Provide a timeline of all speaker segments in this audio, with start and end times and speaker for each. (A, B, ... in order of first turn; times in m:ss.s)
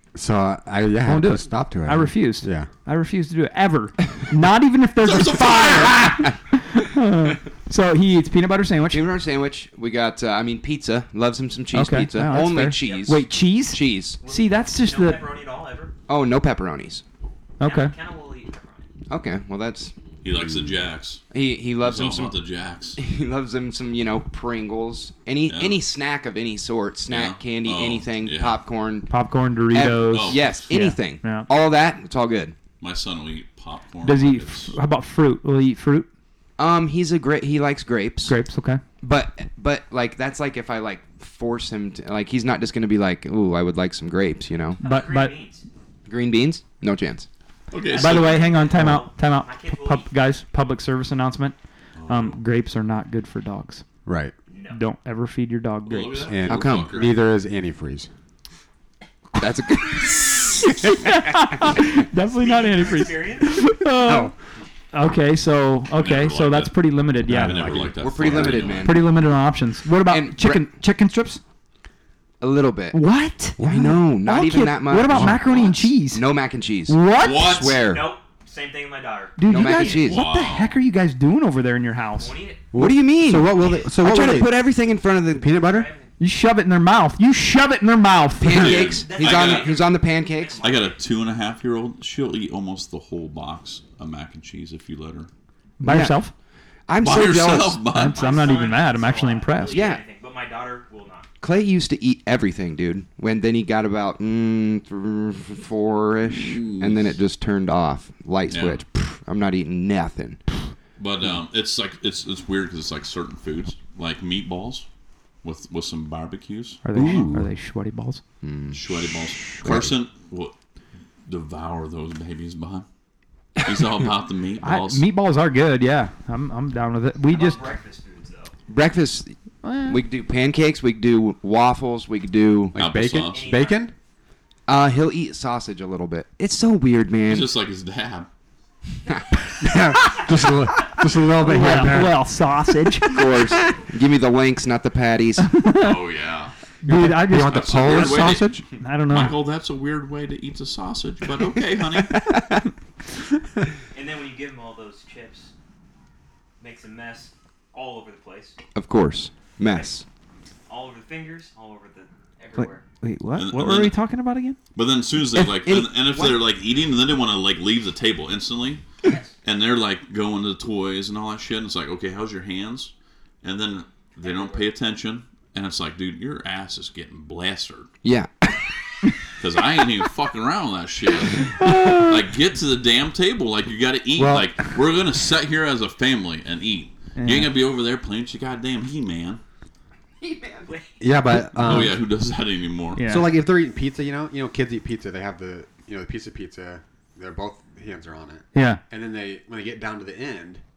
0:00.1-0:02.7 A
0:01.0-0:09.0 B
0:05.0-0:06.2 C
0:08.9-0:14.2 D
0:11.7-0:15.2 B
0:12.5-0:13.2 E
0:14.2-0:15.9 E
0:16.1-0:17.0 D
0:17.6-0:17.9 B
0:17.6-0:18.9 E
0:19.1-0:19.9 D
0:20.2-0:21.2 C
0:21.3-0:22.4 D
0:21.8-0:23.0 C
0:23.0-0:29.1 D
0:25.5-0:25.8 C
0:27.1-0:28.6 C
0:29.1-0:31.5 B
0:29.7-0:32.6 D
0:30.0-0:30.5 C
0:32.8-0:34.8 C
0:34.0-0:36.1 B
0:36.6-0:38.3 D
0:38.2-0:38.8 B
0:39.0-0:44.8 D
0:44.8-0:45.6 E
0:44.8-0:45.4 B
0:46.1-0:47.3 D
0:47.7-0:48.5 C
0:47.8-0:50.1 E
0:48.0-0:51.6 B
0:52.0-0:52.4 C
0:52.1-0:53.8 B
0:54.0-0:54.3 A
0:54.5-0:54.8 E
0:54.7-0:56.3 B
0:55.8-0:57.2 C
0:56.3-0:58.1 A
0:56.5-0:57.0 D
0:59.4-1:01.0 D
1:00.9-1:04.3 B
1:02.2-1:03.8 E
1:04.0-1:04.3 A
1:04.9-1:07.9 B
1:05.9-1:09.0 C
1:07.3-1:08.6 A
1:08.0-1:09.0 D
1:08.6-1:11.4 B
1:10.0-1:10.7 D
1:12.4-1:13.0 D
1:12.9-1:16.2 B
1:13.6-1:18.1 D
1:13.6-1:13.9 A
1:15.1-1:15.5 A
1:15.4-1:15.8 C
1:16.8-1:17.4 B
1:17.2-1:17.9 C
1:17.7-1:20.1 E
1:19.4-1:22.3 B
1:19.5-1:20.2 D
1:20.0-1:20.8 C
1:22.2-1:22.7 E
1:22.7-1:24.6 A
1:22.7-1:25.5 D
1:23.5-1:24.2 E
1:25.4-1:25.9 A
1:25.5-1:26.1 E
1:26.2-1:28.7 B
1:28.4-1:30.7 D
1:28.5-1:29.7 C
1:28.8-1:31.0 E
1:30.6-1:35.3 C
1:35.8-1:36.3 B
1:35.8-1:36.2 D
1:36.9-1:37.8 D
1:37.0-1:38.7 C
1:37.9-1:39.8 B
1:38.1-1:41.3 E
1:39.7-1:40.0 D
1:41.4-1:50.4 D
1:46.3-1:47.1 C
1:48.5-1:48.8 C
1:51.0-1:54.9 C
1:55.4-1:57.1 C
1:56.8-1:58.2 B
1:56.9-1:57.5 A
1:58.4-1:58.8 D
1:58.7-2:00.5 C
1:59.6-1:59.9 A
2:01.3-2:02.8 C
2:03.6-2:05.0 C
2:04.6-2:07.6 B
2:07.3-2:08.5 E
2:08.7-2:09.3 D
2:09.6-2:10.0 B
2:09.8-2:12.8 D
2:12.7-2:13.9 A
2:12.8-2:13.4 C
2:13.3-2:13.9 E
2:14.7-2:17.5 D
2:17.3-2:18.3 C
2:19.6-2:22.2 A
2:21.4-2:23.2 B
2:23.1-2:25.5 D
2:25.4-2:26.0 B
2:25.8-2:26.5 C
2:26.8-2:29.3 B
2:26.8-2:28.6 A
2:27.5-2:28.5 C
2:29.1-2:32.2 C
2:32.2-2:32.6 D
2:33.9-2:35.5 E
2:36.6-2:38.6 E
2:38.7-2:40.0 D
2:40.7-2:42.8 E
2:42.6-2:44.6 B
2:43.4-2:44.0 C
2:44.7-2:48.8 C
2:45.2-2:46.4 D
2:49.0-2:49.3 E
2:49.4-2:57.9 C
2:54.2-2:54.7 E
2:58.0-2:58.6 D
2:59.4-3:09.4 C
3:01.6-3:02.1 B
3:04.2-3:04.7 A
3:07.2-3:07.5 B
3:10.2-3:11.0 E
3:11.0-3:12.0 A
3:11.6-3:13.0 C
3:13.0-3:13.3 B
3:13.0-3:20.6 A
3:18.5-3:18.8 B